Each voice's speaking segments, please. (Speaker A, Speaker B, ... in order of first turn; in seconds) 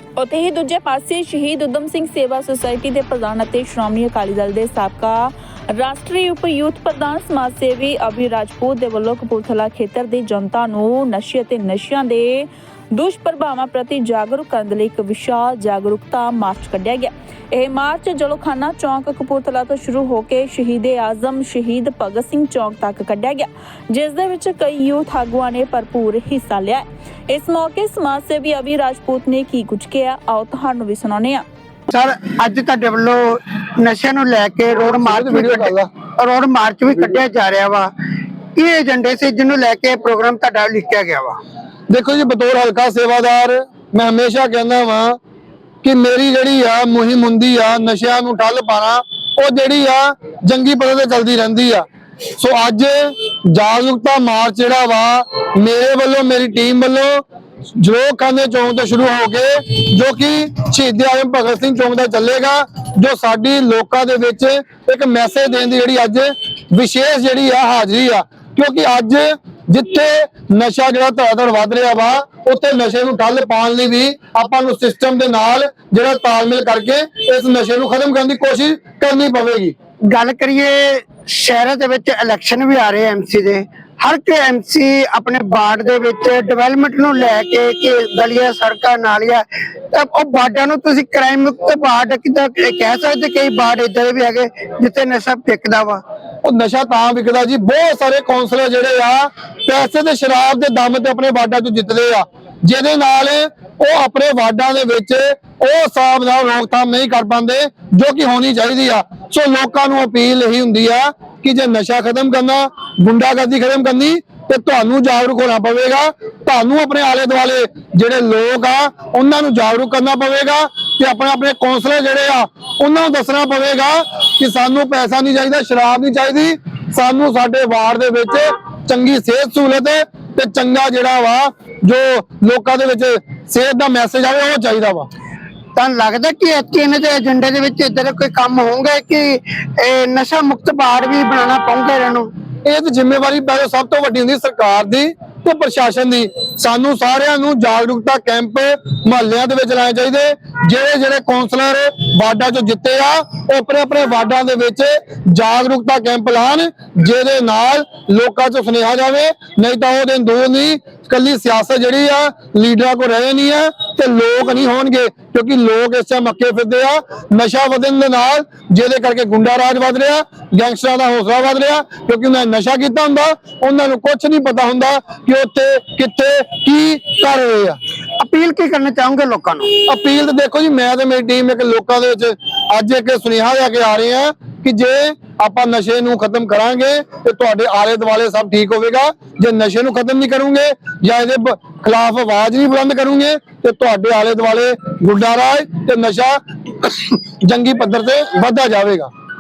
Speaker A: 0.2-31.4
Speaker B: 31.9-37.9, 38.5-41.4, 80.1-96.0, 135.8-142.3, 178.2-179.7
Speaker C: 34.9-35.9, 41.9-45.2, 45.8-51.9, 52.4-57.2, 57.8-79.8, 96.4-135.1, 142.7-177.8, 179.8-199.1